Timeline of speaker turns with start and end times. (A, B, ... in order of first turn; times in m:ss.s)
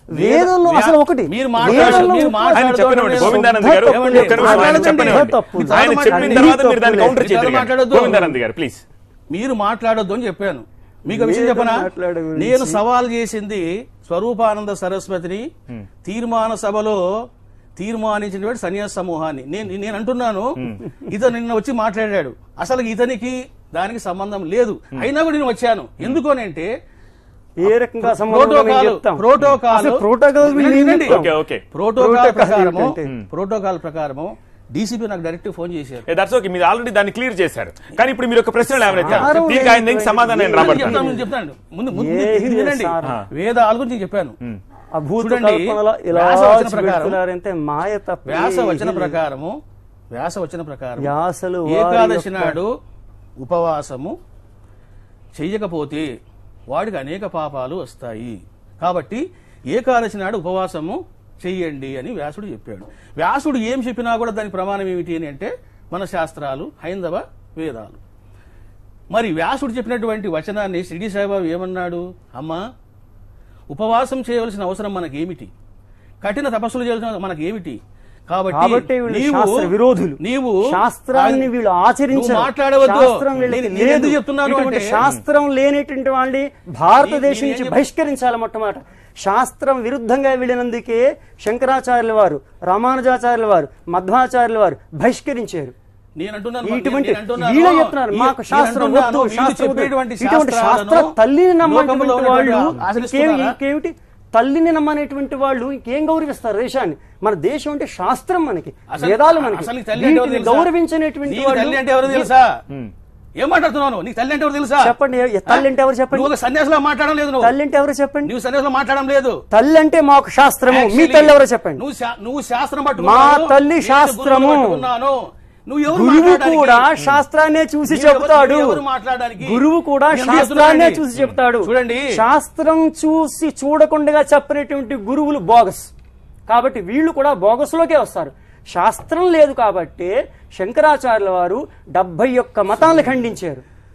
0:00.1-0:07.2 A
0:00.1-0:06.6 B
0:01.6-0:08.8 C
0:07.1-0:08.2 B
0:09.3-0:15.5 B
0:11.1-0:12.8 A
0:16.0-0:17.0 B
0:17.8-0:26.7 B
0:27.6-0:31.3 A
0:28.0-0:31.2 B
0:31.1-0:31.6 C
0:31.7-0:36.0 B
0:32.0-0:33.1 A
0:36.1-0:41.0 C
0:39.0-0:41.2 A
0:39.0-0:39.3 B
0:40.6-0:44.4 B
0:41.9-0:43.2 A
0:44.9-0:49.2 A
0:45.2-0:47.2 B
0:48.2-0:49.6 B
0:50.1-0:51.1 B
0:51.0-0:52.6 A
0:51.7-0:52.7 B
0:53.4-0:54.1 B
0:55.4-0:56.1 B
0:56.7-1:08.0 B
1:09.1-1:12.6 B
1:13.7-1:15.5 B
1:16.2-1:21.5 B
1:18.5-1:35.7 A
1:22.1-1:25.0 B
1:27.0-1:27.8 B
1:36.2-1:43.6 B
1:36.6-1:52.3 A
1:48.9-1:50.7 B
1:51.3-1:52.5 B
1:53.4-1:54.9 B
1:54.8-1:56.3 A
1:55.5-1:57.5 B
1:57.4-1:58.3 A
1:58.2-1:59.4 B
1:59.5-2:01.8 A
2:00.7-2:06.9 B
2:03.0-2:04.9 A
2:05.9-2:08.8 A
2:07.9-2:11.1 B
2:09.4-2:15.9 A
2:11.6-2:12.2 B
2:16.5-2:23.6 A